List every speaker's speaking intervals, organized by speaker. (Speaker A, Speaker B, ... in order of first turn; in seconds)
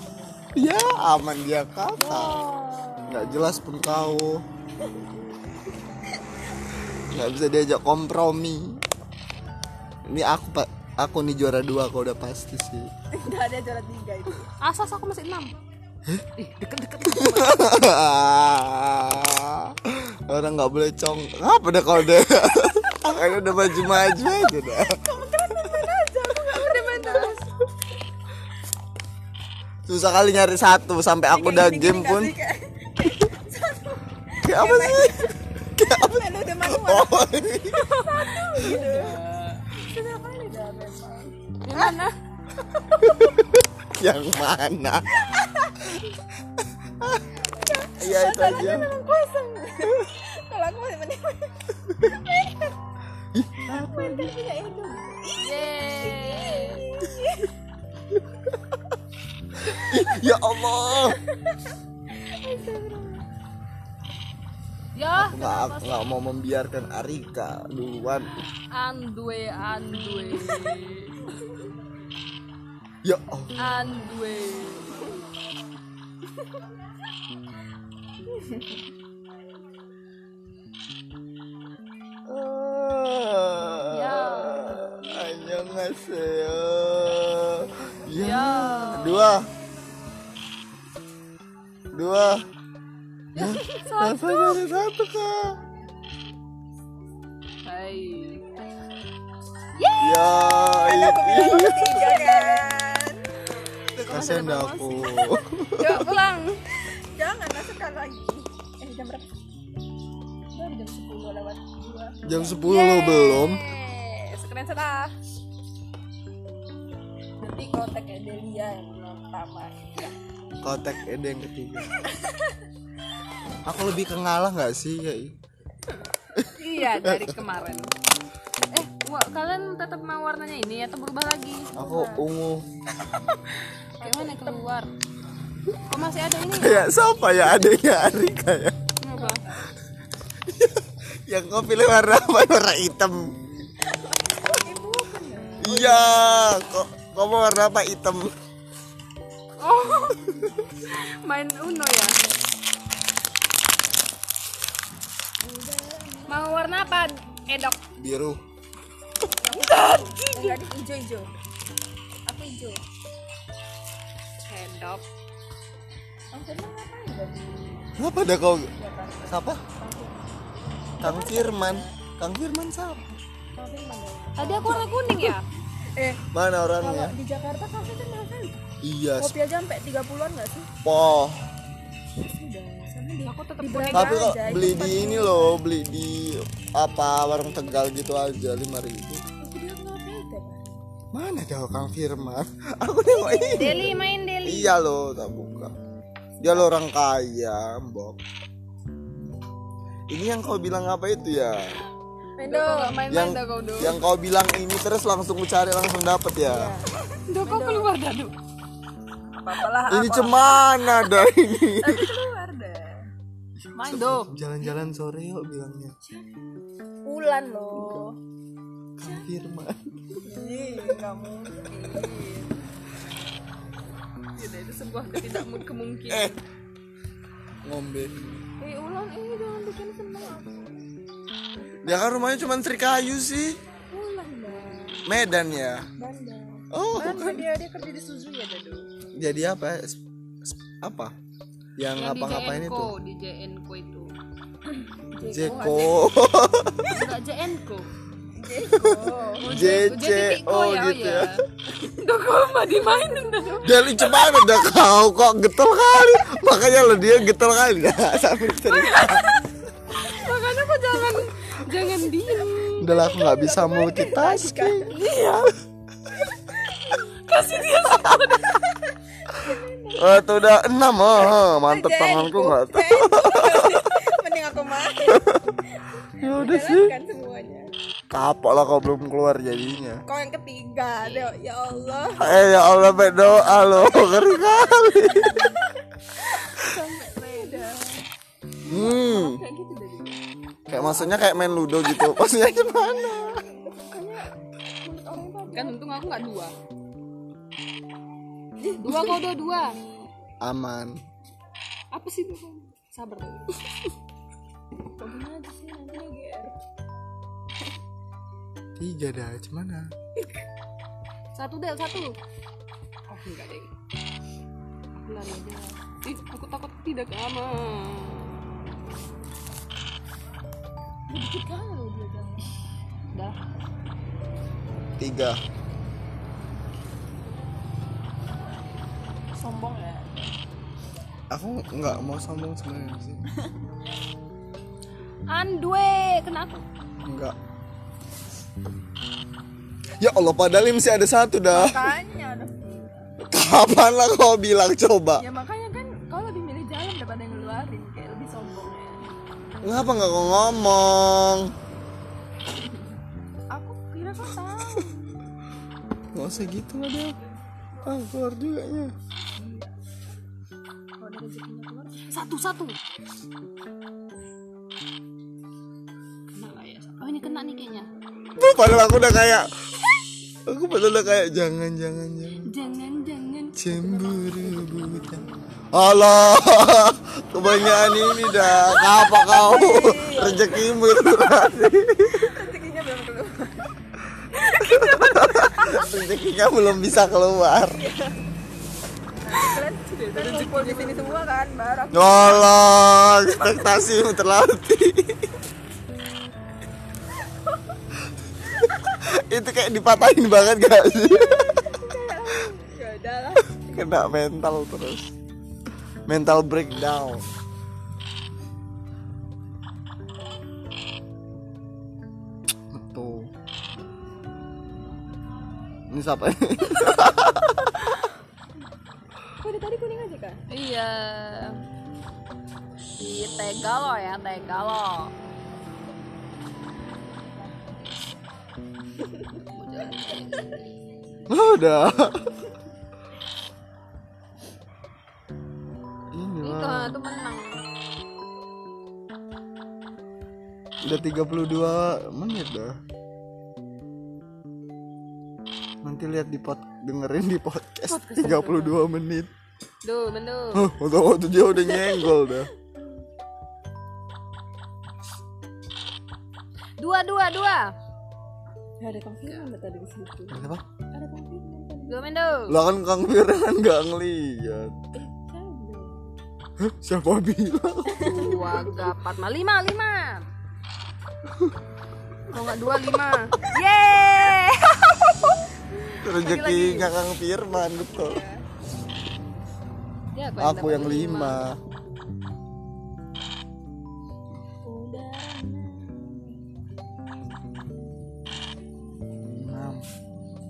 Speaker A: 0.6-2.4, 3.1-4.4, 7.1-8.8, 10.1-12.9, 17.0-25.0, 29.9-32.3, 34.4-37.9, 43.0-45.2, 47.0-47.2, 47.9-48.9, 53.3-54.3, 58.1-58.5, 59.6-61.2, 65.1-68.3, 73.0-73.5, 82.3-89.5, 91.9-92.4, 93.3-95.6, 100.0-102.0, 104.0-106.1, 112.2-113.6, 120.6-122.0, 123.7-125.3, 126.3-127.4, 131.8-132.6, 136.6-138.8, 140.4-143.3, 145.6-148.3, 158.0-158.4, 168.0-168.7, 169.3-169.6, 171.0-173.2, 176.3-177.1, 178.8-179.3, 180.8-181.4, 183.9-189.2, 191.1-195.7, 196.4-198.2, 200.1-201.8, 203.1-206.7, 209.9-212.1, 213.8-215.9, 219.0-220.2, 226.1-226.3, 227.6-228.4, 231.8-233.6, 235.1-235.9, 236.7-237.5, 239.2-241.1, 241.8-242.9, 245.2-246.9, 248.7-251.3, 253.6-259.3, 262.8-264.9, 270.0-273.9, 276.2-276.9, 278.1-280.0, 282.2-285.5, 288.7-289.4, 290.7-293.4, 300.4-301.0, 308.8-309.9, 325.0-325.4, 331.3-333.2, 337.0-337.3, 340.0-341.9, 343.2-345.2, 349.6-351.5, 356.1-357.1, 357.8-358.9, 368.4-369.5, 370.5-372.5, 373.6-375.2, 375.7-382.4, 384.6-387.8, 391.9-395.3, 398.8-401.6, 403.7-405.1, 406.1-407.3, 412.7-413.3, 415.9-417.9, 431.3-432.3, 436.1-437.0, 440.8-442.8, 445.8-449.3, 450.5-452.5, 460.3-460.6, 462.5-464.7, 466.6-468.4, 476.0-478.2, 480.4-481.6, 489.3-489.8
Speaker B: 1.9-3.4, 4.8-5.1, 13.1-14.5, 25.0-27.5, 31.3-39.2, 39.7-42.0, 42.8-43.2, 45.4-45.7, 47.6-52.7, 53.7-57.5, 59.7-60.0, 61.1-63.2, 78.3-78.7, 93.4-93.8, 100.6-103.3, 106.8-109.3, 110.5-115.1, 117.4-120.1, 122.0-122.6, 131.8-132.2, 134.0-134.8, 139.1-139.6, 143.9-146.2, 155.4-156.9, 159.4-161.3, 162.3-162.8, 166.3-167.9, 168.8-170.2, 171.0-171.9, 173.5-175.4, 175.9-176.2, 176.8-178.6, 179.2-180.7, 182.3-185.6, 189.4-190.8, 193.1-193.9, 196.4-196.7, 202.4-203.0, 206.5-207.9, 209.4-213.0, 216.0-216.3, 217.0-218.1, 220.2-222.5, 228.6-230.8, 231.6-232.2, 233.9-235.0, 236.0-238.8, 245.1-246.1, 248.3-249.5, 253.0-253.7, 262.8-265.0, 266.5-270.2, 271.6-277.7, 280.1-282.2, 284.7-285.5, 286.2-288.0, 288.6-290.2, 290.7-291.3, 293.3-294.3, 294.8-295.9, 298.6-299.1, 305.0-306.5, 321.1-322.5, 329.3-330.4, 341.5-343.1, 345.2-349.0, 353.5-355.0, 359.4-359.7, 361.0-362.4, 373.7-375.3, 377.4-381.0, 382.1-383.7, 384.3-385.9, 387.6-388.1, 389.2-393.7, 401.1-404.1, 419.4-420.4, 458.8-462.0, 464.9-466.1, 467.9-468.8, 477.8-478.4, 484.6-486.3
Speaker C: 14.6-15.5, 16.4-17.6, 26.5-27.4, 38.0-39.6, 41.6-42.1, 55.4-56.8, 65.0-66.0, 68.7-71.3, 73.6-75.1, 83.9-84.8, 88.1-89.4, 93.7-94.7, 97.7-98.5, 99.8-100.3, 102.0-102.6, 104.0-105.2, 105.8-106.6, 112.7-113.5, 126.6-127.9, 128.7-131.7, 134.0-134.9, 135.9-136.9, 139.0-139.4, 149.6-152.2, 156.3-157.8, 159.5-160.6, 164.5-165.0, 174.4-175.4, 183.2-184.2, 193.5-194.7, 202.5-204.0, 207.3-208.3, 213.8-214.3, 224.4-226.4, 242.0-244.1, 246.9-247.9, 249.4-254.3, 258.8-259.3, 259.9-262.9, 264.9-265.5, 267.2-268.6, 281.0-281.3, 295.5-296.5, 298.8-299.8, 301.9-303.9, 311.3-312.1, 313.1-313.7, 315.0-318.4, 323.1-323.4, 335.3-336.6, 362.1-362.7, 366.4-367.9, 372.5-373.6, 389.3-391.2, 420.5-421.6, 423.0-425.1, 429.5-430.7, 436.4-437.6, 447.9-448.8, 449.8-450.7, 456.8-457.7, 461.9-462.6, 468.0-470.2, 472.3-475.4, 476.1-476.9, 480.1-481.4